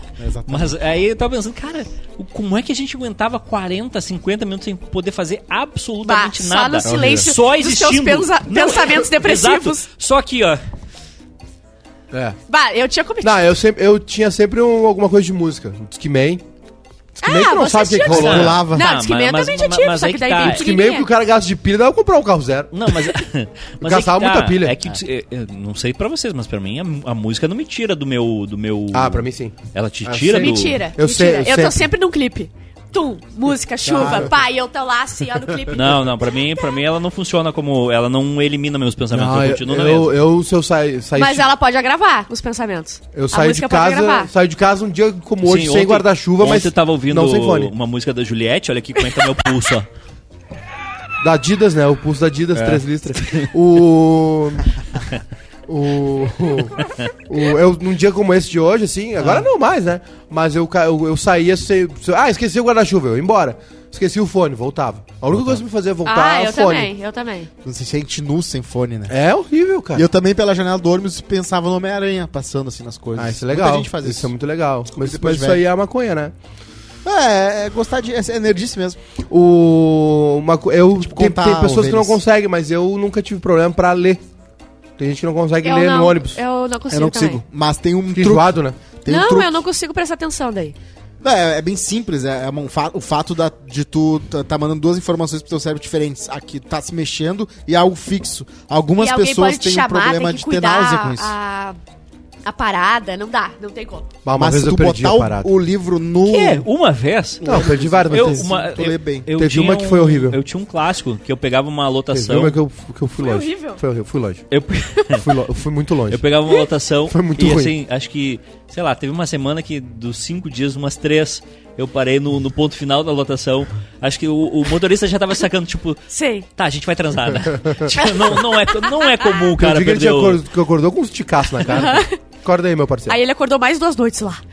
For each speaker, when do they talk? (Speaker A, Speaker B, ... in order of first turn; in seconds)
Speaker A: 0.2-0.7, 18.2-18.9, 65.3-65.6, 67.6-69.1, 70.0-74.3, 74.9-75.6, 77.0-79.0, 81.0-82.2, 86.9-89.6, 91.2-101.3, 104.4-106.7, 107.4-109.3
Speaker B: 0.5-10.6, 18.1-20.7, 22.7-30.8, 35.7-40.2, 45.4-49.9, 106.3-112.6, 114.5-115.3, 116.1-130.4
Speaker C: 6.0-9.9, 12.5-13.5, 17.2-21.1, 30.3-36.3, 41.2-44.3, 66.1-67.5, 85.6-87.4, 89.1-90.8, 99.0-101.8, 102.5-104.1, 113.2-113.8, 126.1-126.5, 127.9-129.5, 131.7-132.2, 133.1-134.4
Speaker D: 6.8-7.3, 12.1-12.4, 13.2-16.4, 17.2-18.6, 20.4-22.7, 23.8-24.8, 28.9-31.9, 33.9-34.3, 39.1-41.5, 43.1-47.7, 51.2-54.8, 55.7-66.9, 69.1-70.1, 73.2-76.3, 79.3-84.2, 85.0-86.4, 88.2-88.8, 104.2-105.5, 107.4-108.7, 109.4-110.4, 112.1-114.5, 115.1-116.2, 117.1-117.7, 129.6-133.2